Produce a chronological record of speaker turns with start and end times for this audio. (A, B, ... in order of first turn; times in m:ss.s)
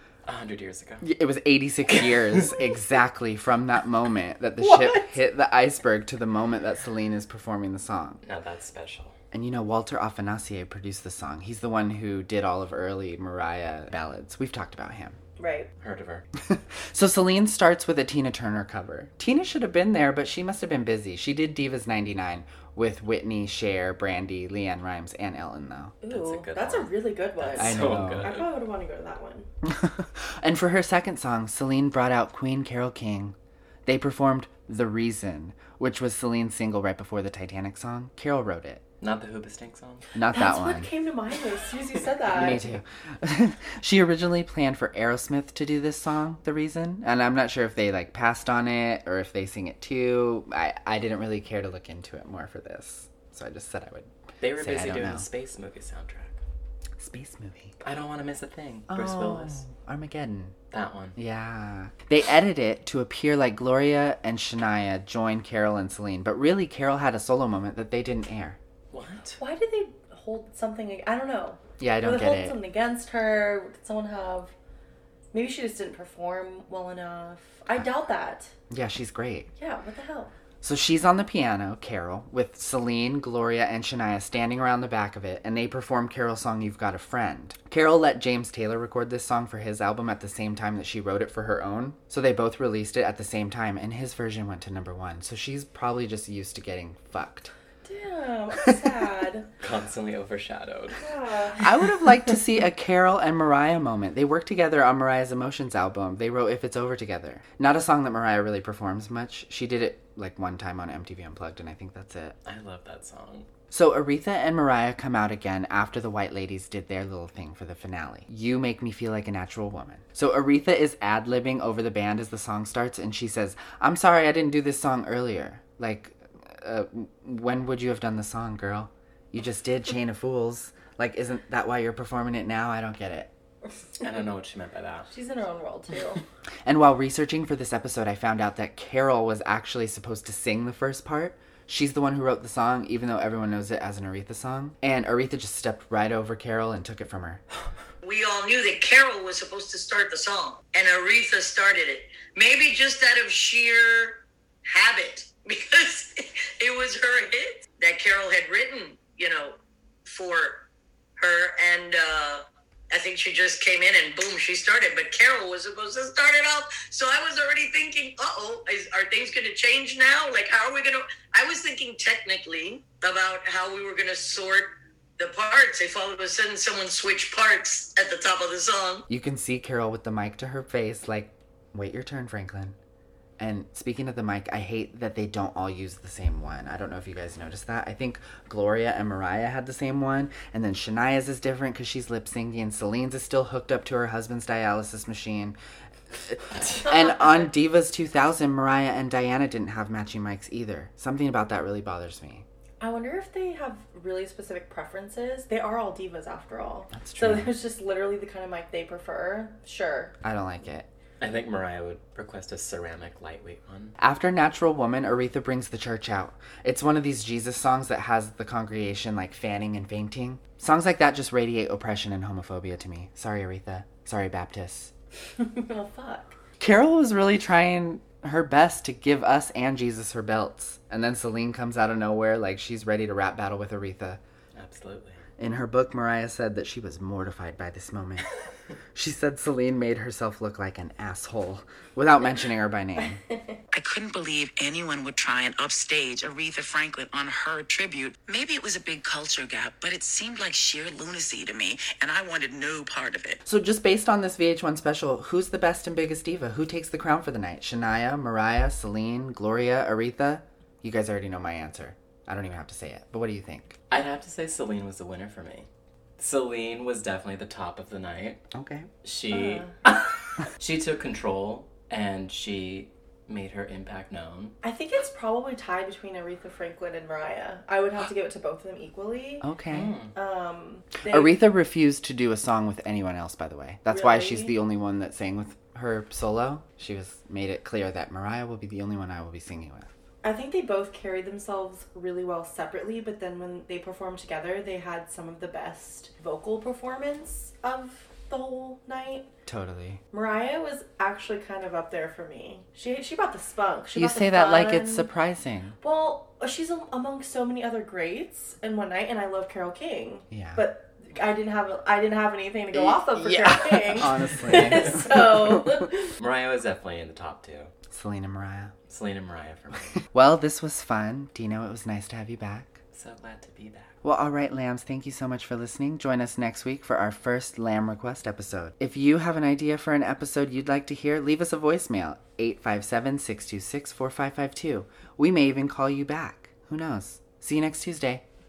0:00.2-0:01.1 A
0:01.0-0:08.2 B
0:01.9-0:02.4 A
0:04.6-0:05.2 C
0:08.2-0:09.2 A
0:09.3-0:15.2 B
0:15.4-0:15.7 C
0:15.8-0:16.2 A
0:16.5-0:25.9 B
0:26.0-0:29.5 C
0:26.1-0:28.5 A
0:27.6-0:28.3 B
0:29.6-0:33.3 B
0:33.8-0:38.8 B
0:39.0-0:40.1 A
0:40.1-0:40.9 B
0:40.3-0:42.6 C
0:42.3-0:55.2 B
0:54.4-0:56.4 A
0:57.0-0:57.7 B
0:57.8-0:59.6 A
0:58.9-1:00.5 B
1:00.7-1:01.2 A
1:01.2-1:08.6 B
1:08.9-1:09.4 A
1:09.4-1:14.5 C
1:11.8-1:12.6 B
1:15.3-1:18.5 C
1:18.7-1:19.5 B
1:19.6-1:20.3 C
1:20.6-1:37.5 B
1:37.8-1:39.5 C
1:39.6-1:41.0 A
1:41.0-1:41.7 C
1:41.6-1:52.4 B
1:52.4-1:53.5 A
1:53.7-2:13.3 B
2:14.0-2:15.1 A
2:15.1-2:16.2 C
2:16.6-2:27.4 B
2:28.0-2:40.6 D
2:41.2-2:59.0 D
2:59.1-3:02.8 B
3:03.4-3:15.6 B
3:16.1-3:22.4 B
3:22.8-3:30.1 C
3:26.9-3:27.5 B
3:30.2-3:30.9 B
3:31.2-3:34.0 A
3:34.0-3:44.9 B
3:45.4-3:46.4 C
3:46.6-3:54.2 B
3:54.6-3:55.2 A
3:55.4-3:58.3 B
3:58.9-4:03.2 B
4:03.0-4:03.6 C
4:03.7-4:13.4 E
4:13.4-4:23.8 B
4:23.9-4:28.4 A
4:28.5-4:28.9 B
4:29.0-4:34.6 A
4:29.3-4:29.7 C
4:34.6-4:39.4 C
4:39.4-4:39.9 B
4:39.7-4:40.1 A
4:40.1-4:41.3 C
4:41.0-4:49.9 B
4:43.9-4:44.5 C
4:50.2-4:59.3 C
4:59.5-5:00.0 B
5:00.1-5:05.1 C
5:03.9-5:05.8 B
5:05.8-5:16.1 C
5:10.3-5:10.7 B
5:12.7-5:15.9 B
5:16.2-5:17.7 A
5:17.9-5:18.7 B
5:18.9-5:20.0 A
5:20.1-5:22.8 B
5:22.9-5:24.0 A
5:24.0-5:38.2 B